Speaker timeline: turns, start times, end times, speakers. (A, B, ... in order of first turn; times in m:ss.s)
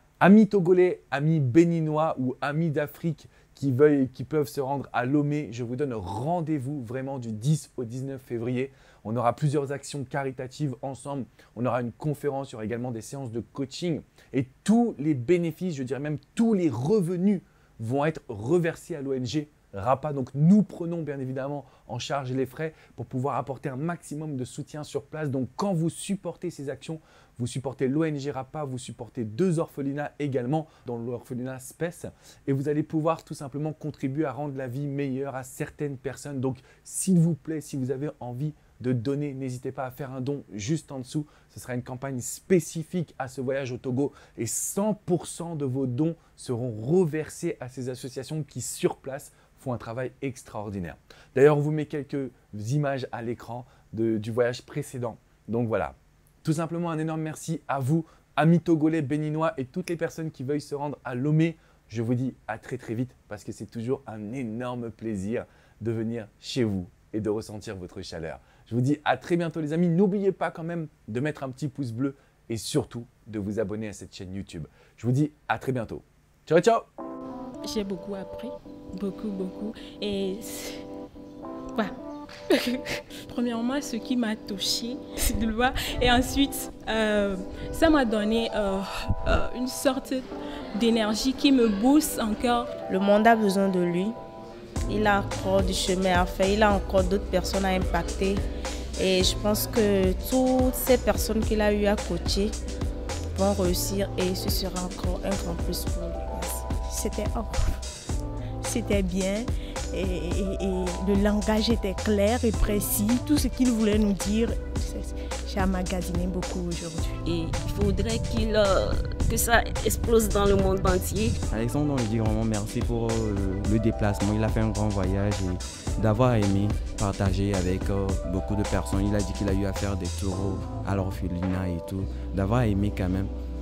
0:00.2-1:16.8 A
1:17.6-1:20.8 B
1:22.5-1:32.7 B
1:32.9-1:34.1 C
1:34.9-1:38.4 C
1:39.0-1:42.5 C
1:43.4-1:46.6 C
1:46.9-1:47.7 D
1:48.6-1:57.2 D
1:57.2-2:01.3 E
2:01.5-2:13.3 F